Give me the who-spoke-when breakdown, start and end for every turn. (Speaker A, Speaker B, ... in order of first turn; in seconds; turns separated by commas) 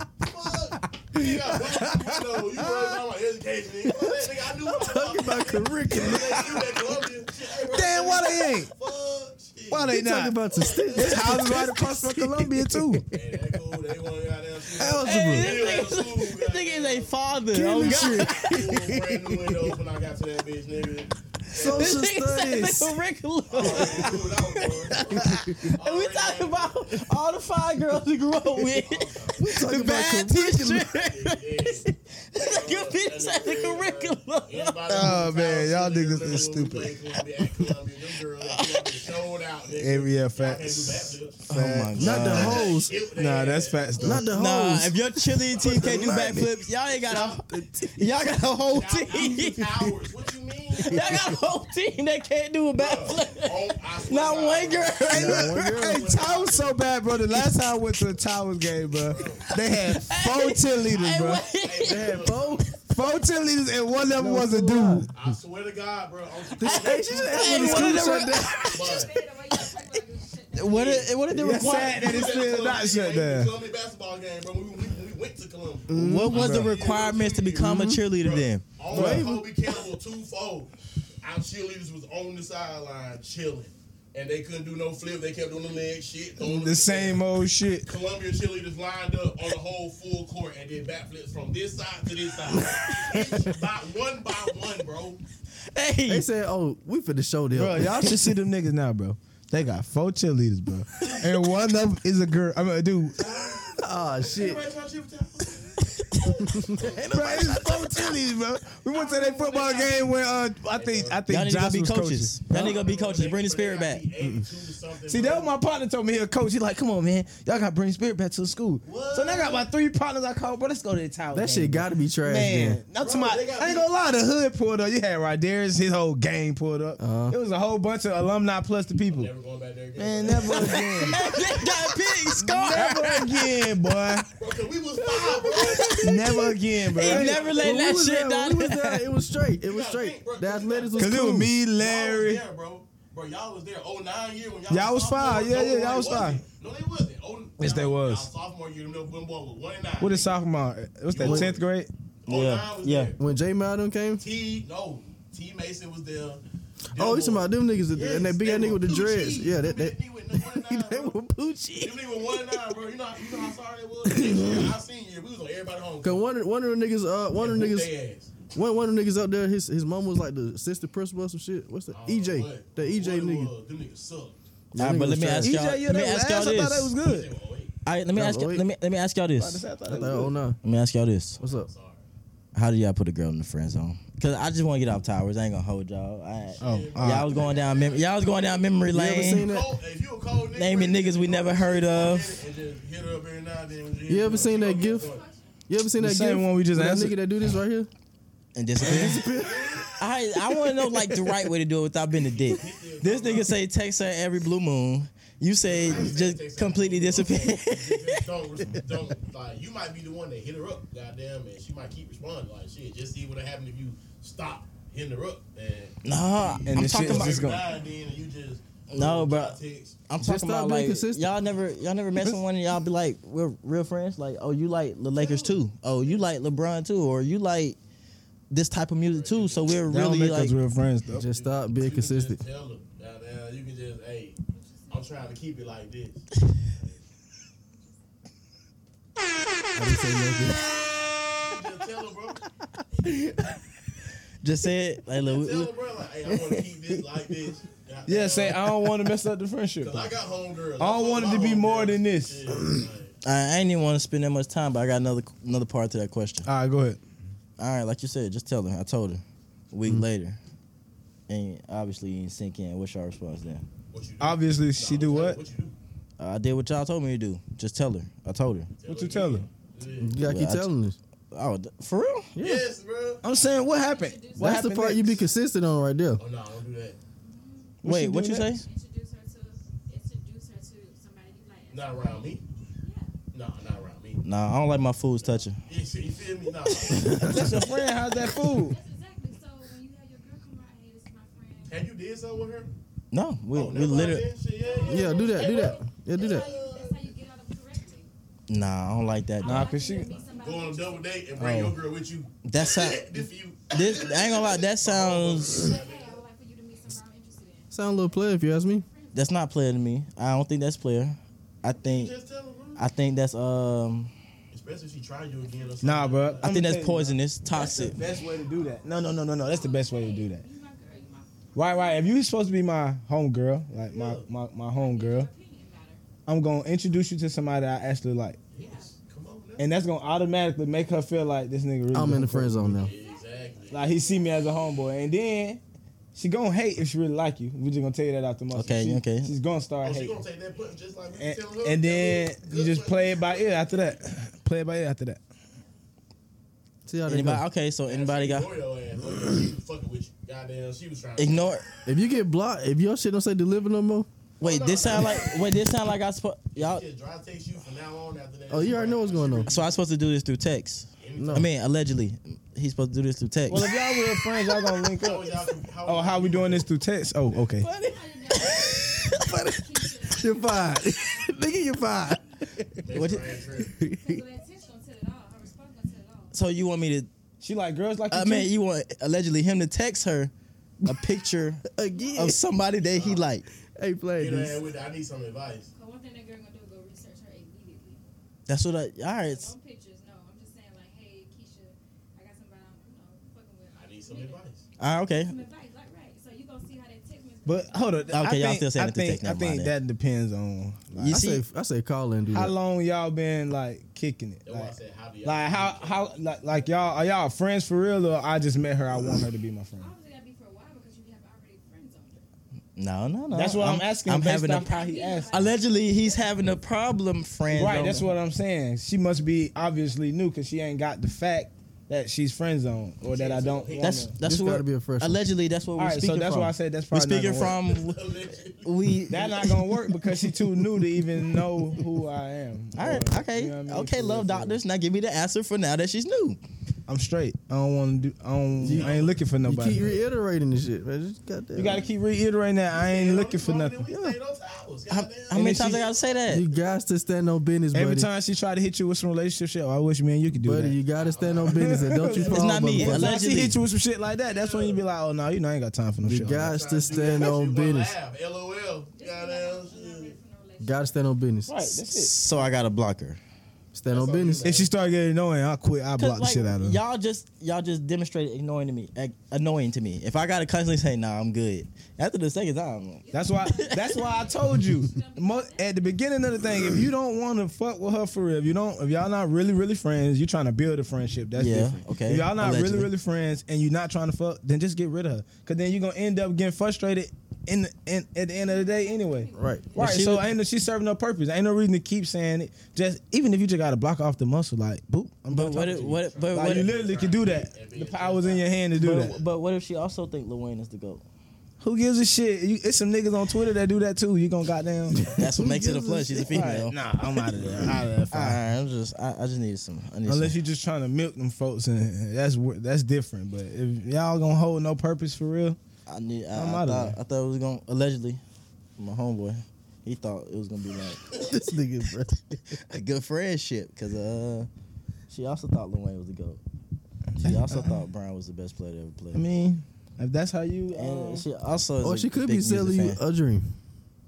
Speaker A: 0.2-11.6, Speaker B: 1.1-3.0, Speaker B: 3.8-6.8, Speaker C: 7.6-8.7, Speaker C: 9.7-10.4, Speaker B: 9.9-13.4, Speaker C: 10.9-13.0, Speaker A: 13.1-17.2, Speaker B: 14.7-15.5, Speaker D: 15.0-18.6, Speaker B: 17.5-19.8, Speaker C: 17.7-18.1, Speaker A: 17.9-22.0, Speaker B: 21.5-22.9, Speaker D: 21.6-35.1, Speaker A: 23.5-27.0, Speaker B: 23.6-24.2, Speaker B: 24.9-25.7, Speaker A: 28.7-29.6, Speaker B: 29.4-30.9, Speaker A: 30.9-41.4, Speaker C: 34.9-37.0, Speaker D: 38.5-38.9, Speaker C: 39.7-42.4, Speaker D: 41.5-42.7, Speaker B: 41.9-42.9, Speaker A: 42.0-44.3, Speaker C: 43.1-44.3, Speaker B: 44.0-46.6, Speaker D: 44.3-49.9, Speaker A: 45.5-46.2, Speaker A: 47.1-47.4, Speaker B: 47.1-48.1, Speaker A: 48.7-51.1, Speaker D: 50.8-55.7, Speaker B: 50.9-51.2, Speaker A: 52.8-56.8, Speaker B: 55.1-56.0, Speaker C: 55.1-61.4, Speaker A: 58.9-59.5, Speaker D: 59.5-62.3, Speaker A: 61.5-62.7, Speaker B: 61.8-62.7, Speaker C: 62.9-65.1, Speaker E: 63.0-63.3, Speaker B: 64.2-65.2, Speaker A: 65.1-68.0, Speaker B: 66.6-68.7, Speaker E: 67.3-71.1, Speaker D: 67.3-69.0, Speaker C: 67.6-68.3, Speaker A: 68.7-69.3, Speaker D: 70.5-72.2, Speaker A: 70.6-95.2, Speaker C: 71.3-73.5, Speaker B: 75.9-76.3, Speaker D: 75.9-78.6, Speaker C: 76.3-76.7, Speaker B: 77.6-77.9, Speaker B: 78.9-79.5, Speaker C: 78.9-79.3, Speaker C: 86.4-87.9, Speaker D: 95.7-96.3, Speaker B: 96.1-98.3, Speaker C: 97.5-103.3, Speaker A: 103.1-107.7, Speaker B: 103.8-104.6, Speaker B: 106.4-107.6, Speaker C: 107.0-112.7, Speaker A: 108.9-110.1, Speaker E: 109.5-109.8, Speaker A: 110.7-111.2, Speaker D: 111.3-114.0, Speaker A: 112.5-115.5, Speaker B: 114.2-114.5, Speaker C: 115.1-129.3, Speaker A: 118.8-119.6, Speaker B: 121.3-122.8, Speaker A: 123.0-123.9, Speaker B: 127.0-127.3, Speaker A: 129.1-131.7, Speaker C: 130.0-131.3, Speaker D: 131.0-133.5, Speaker C: 132.4-134.3, Speaker A: 134.4-136.2, Speaker B: 135.0-136.5, Speaker D: 135.7-136.0, Speaker C: 136.0-137.5, Speaker D: 136.9-139.1, Speaker A: 137.0-137.8, Speaker B: 137.3-141.5, Speaker A: 139.6-150.3, Speaker C: 141.0-142.4, Speaker C: 144.7-146.4, Speaker C: 147.6-148.3, Speaker C: 150.0-151.9, Speaker A: 151.1-151.6, Speaker B: 151.2-151.5, Speaker A: 152.2-153.2, Speaker D: 152.2-153.1, Speaker B: 153.2-154.2, Speaker A: 154.2-161.2, Speaker B: 156.9-162.7, Speaker A: 161.8-166.3, Speaker B: 164.1-164.7, Speaker B: 166.0-167.9, Speaker A: 167.3-168.3, Speaker B: 168.5-173.5, Speaker A: 171.9-174.4, Speaker B: 174.7-175.5, Speaker D: 174.8-176.9, Speaker C: 175.4-177.3, Speaker A: 177.0-177.7, Speaker D: 177.8-179.6, Speaker B: 178.1-178.6, Speaker C: 179.4-180.3, Speaker B: 179.8-180.6, Speaker D: 180.6-181.4, Speaker A: 181.4-182.0, Speaker B: 181.4-181.7, Speaker D: 182.5-189.5, Speaker A: 186.6-188.7, Speaker C: 186.6-187.3, Speaker B: 188.9-189.7, Speaker A: 189.2-195.2, Speaker D: 190.5-192.4, Speaker B: 194.1-195.1, Speaker E: 194.3-195.6, Speaker B: 195.7-197.9, Speaker C: 196.0-197.2, Speaker D: 198.5-199.2, Speaker B: 198.8-199.8, Speaker A: 198.8-199.9, Speaker D: 200.0-208.2, Speaker A: 202.2-203.5, Speaker A: 205.6-220.0, Speaker D: 216.0-217.4, Speaker C: 216.7-217.7, Speaker D: 218.9-227.8, Speaker B: 220.2-221.3, Speaker A: 225.2-225.5, Speaker D: 228.5-230.6, Speaker A: 229.1-229.8, Speaker C: 229.9-231.2, Speaker B: 231.1-232.4, Speaker A: 231.2-237.0, Speaker E: 234.5-235.4, Speaker B: 239.7-240.7, Speaker A: 241.4-242.4, Speaker A: 243.0-243.3, Speaker B: 243.0-243.4, Speaker D: 244.4-245.7, Speaker A: 245.1-248.8, Speaker B: 246.3-246.6, Speaker C: 248.1-250.1, Speaker A: 249.8-253.1, Speaker C: 250.8-252.5, Speaker D: 253.2-256.5, Speaker C: 256.4-257.0, Speaker D: 257.6-260.4, Speaker D: 261.3-263.6, Speaker A: 263.9-265.8, Speaker C: 264.2-265.4, Speaker D: 266.2-268.7, Speaker A: 268.8-270.2, Speaker C: 268.9-269.5, Speaker B: 270.0-271.0, Speaker D: 270.2-270.7, Speaker D: 271.3-272.3, Speaker B: 272.4-272.6, Speaker A: 272.4-273.2, Speaker C: 273.2-275.2, Speaker E: 273.6-275.8, Speaker B: 274.4-276.2, Speaker A: 276.2-277.0, Speaker E: 277.2-277.8, Speaker C: 277.8-278.6, Speaker D: 277.8-278.6, Speaker E: 278.6-282.3, Speaker A: 281.7-282.4, Speaker E: 282.8-283.1, Speaker A: 283.3-284.2, Speaker D: 284.2-285.6, Speaker A: 285.6-287.6, Speaker B: 287.0-287.3, Speaker C: 287.2-288.8, Speaker E: 287.9-291.9, Speaker A: 291.7-292.7, Speaker D: 293.1-294.3, Speaker A: 293.5-297.1, Speaker E: 294.6-298.1, Speaker B: 294.9-296.5, Speaker D: 298.5-299.7, Speaker E: 299.4-301.2, Speaker C: 299.4-300.1, Speaker A: 300.2-306.2, Speaker C: 301.4-301.8, Speaker D: 302.4-303.1, Speaker D: 303.7-305.7, Speaker E: 305.6-309.4, Speaker B: 307.7-308.8, Speaker D: 309.1-312.1, Speaker A: 311.7-312.8, Speaker D: 312.8-314.1, Speaker A: 314.5-316.5, Speaker C: 315.8-320.4, Speaker D: 316.4-318.0, Speaker E: 319.0-322.2, Speaker C: 321.5-325.3, Speaker A: 323.8-324.3, Speaker E: 324.7-326.0, Speaker C: 326.3-328.4, Speaker A: 328.5-329.7, Speaker E: 328.5-329.0, Speaker C: 329.6-332.8, Speaker B: 331.9-332.9, Speaker A: 332.8-333.9, Speaker E: 332.8-334.9, Speaker C: 333.7-335.6, Speaker C: 336.1-340.2, Speaker D: 338.5-339.3, Speaker A: 339.8-343.8, Speaker C: 341.2-345.2, Speaker B: 346.9-347.4, Speaker D: 347.1-348.5, Speaker A: 347.8-351.6, Speaker D: 351.2-351.6, Speaker B: 351.9-354.1, Speaker A: 354.4-355.6, Speaker D: 354.4-356.8, Speaker E: 354.9-355.4, Speaker A: 356.5-359.8, Speaker B: 358.5-359.5, Speaker D: 359.5-363.7, Speaker A: 361.0-361.5, Speaker B: 361.2-361.5, Speaker C: 363.5-367.7, Speaker A: 365.0-366.7, Speaker D: 367.6-369.2, Speaker E: 367.6-371.8, Speaker B: 368.7-372.8, Speaker A: 372.8-373.8, Speaker D: 372.9-373.4, Speaker B: 373.7-374.2, Speaker E: 373.8-376.3, Speaker D: 376.3-377.1, Speaker C: 377.4-378.5, Speaker D: 378.1-380.3, Speaker D: 380.8-381.6, Speaker B: 381.7-382.4, Speaker E: 381.9-382.3, Speaker D: 382.1-383.4, Speaker A: 382.9-383.3, Speaker B: 383.8-384.6, Speaker A: 384.2-385.7, Speaker E: 385.7-388.0, Speaker D: 388.5-389.5, Speaker E: 389.1-394.5, Speaker A: 393.8-394.6, Speaker D: 394.8-395.4, Speaker E: 395.2-398.2, Speaker C: 397.4-401.2, Speaker D: 398.1-399.8, Speaker D: 400.9-401.4, Speaker B: 401.1-402.5, Speaker C: 402.3-409.9, Speaker A: 404.4-406.7, Speaker E: 409.8-412.2, Speaker D: 412.8-414.7, Speaker C: 413.3-415.4, Speaker E: 414.5-416.5, Speaker D: 415.3-418.1, Speaker C: 417.5-424.1, Speaker A: 423.0-424.1, Speaker D: 423.8-428.0, Speaker B: 424.2-425.3, Speaker C: 425.8-427.6, Speaker A: 427.3-428.8, Speaker D: 428.6-430.0, Speaker C: 429.1-434.6, Speaker E: 431.6-432.0, Speaker D: 432.7-436.4, Speaker C: 436.9-439.8, Speaker B: 438.6-441.8, Speaker A: 438.6-440.1, Speaker C: 441.5-443.9, Speaker A: 442.8-446.8, Speaker B: 443.9-444.2, Speaker D: 444.9-446.5, Speaker C: 445.3-445.8, Speaker B: 446.3-448.1, Speaker C: 447.7-450.8, Speaker B: 450.4-453.2, Speaker A: 450.9-452.8, Speaker C: 451.4-456.5, Speaker D: 452.2-453.6, Speaker A: 454.2-454.8, Speaker B: 456.0-457.9, Speaker A: 456.3-460.1, Speaker E: 458.9-461.1, Speaker B: 460.6-461.6, Speaker C: 461.4-462.1, Speaker D: 461.8-463.2, Speaker B: 463.7-464.5, Speaker A: 463.9-464.7, Speaker C: 464.4-466.8, Speaker D: 466.0-474.1, Speaker E: 473.0-475.9, Speaker C: 473.1-499.2, Speaker D: 481.3-482.9, Speaker E: 488.3-490.2, Speaker B: 489.4-489.6, Speaker D: 489.8-490.3, Speaker D: 495.3-496.7, Speaker A: 495.9-498.5, Speaker D: 498.8-501.0, Speaker C: 501.6-505.1, Speaker B: 505.1-506.3, Speaker D: 505.1-506.8, Speaker C: 506.3-508.4, Speaker D: 508.1-510.4, Speaker C: 510.1-515.6, Speaker D: 515.9-518.2, Speaker C: 516.3-517.0, Speaker D: 518.8-521.4, Speaker B: 521.1-522.6, Speaker D: 522.5-524.5, Speaker D: 525.1-526.4, Speaker C: 527.1-527.8, Speaker D: 527.2-529.2, Speaker C: 529.1-531.2, Speaker D: 530.7-533.0, Speaker B: 531.8-533.5